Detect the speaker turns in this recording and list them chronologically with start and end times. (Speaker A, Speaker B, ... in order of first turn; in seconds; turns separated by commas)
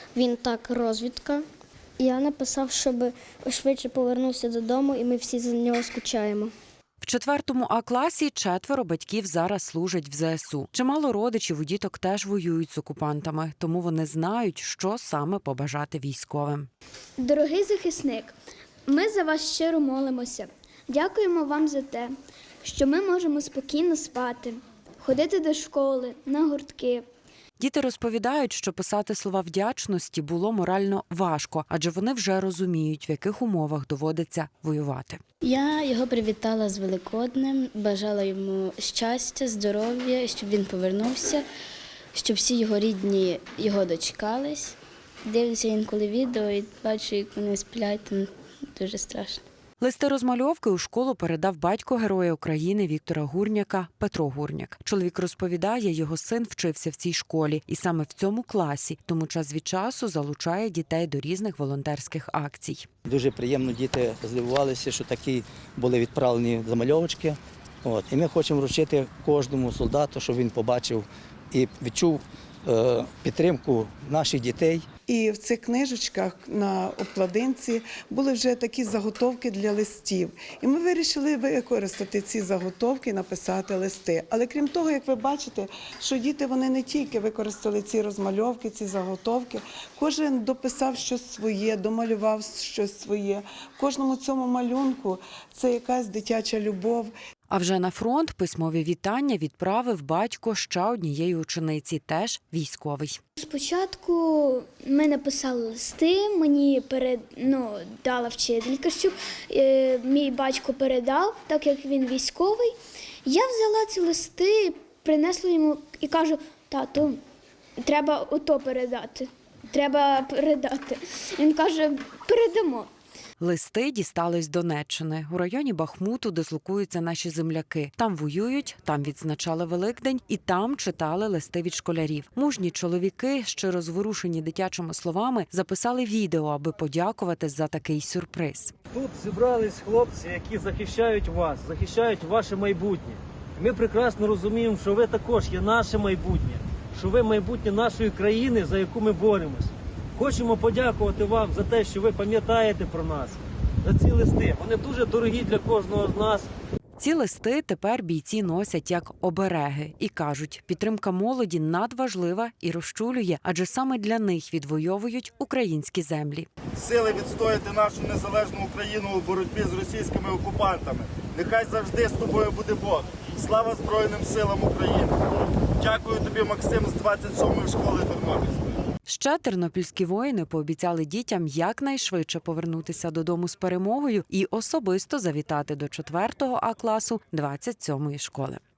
Speaker A: 0.1-1.5, Speaker A: 2.0-6.5, Speaker B: 7.0-16.7, Speaker C: 17.2-18.4, Speaker C: 18.9-27.1, Speaker B: 27.6-35.2, Speaker D: 35.4-41.5, Speaker D: 42.1-49.4, Speaker B: 49.8-62.9, Speaker E: 63.1-74.9, Speaker F: 75.1-97.1, Speaker B: 97.5-103.2, Speaker C: 103.4-112.7, Speaker C: 113.2-117.2, Speaker C: 117.8-122.9, Speaker B: 123.4-138.7, Speaker G: 138.9-156.5, Speaker B: 157.0-166.5, Speaker H: 166.8-175.2, Speaker H: 175.8-178.8, Speaker B: 179.1-188.6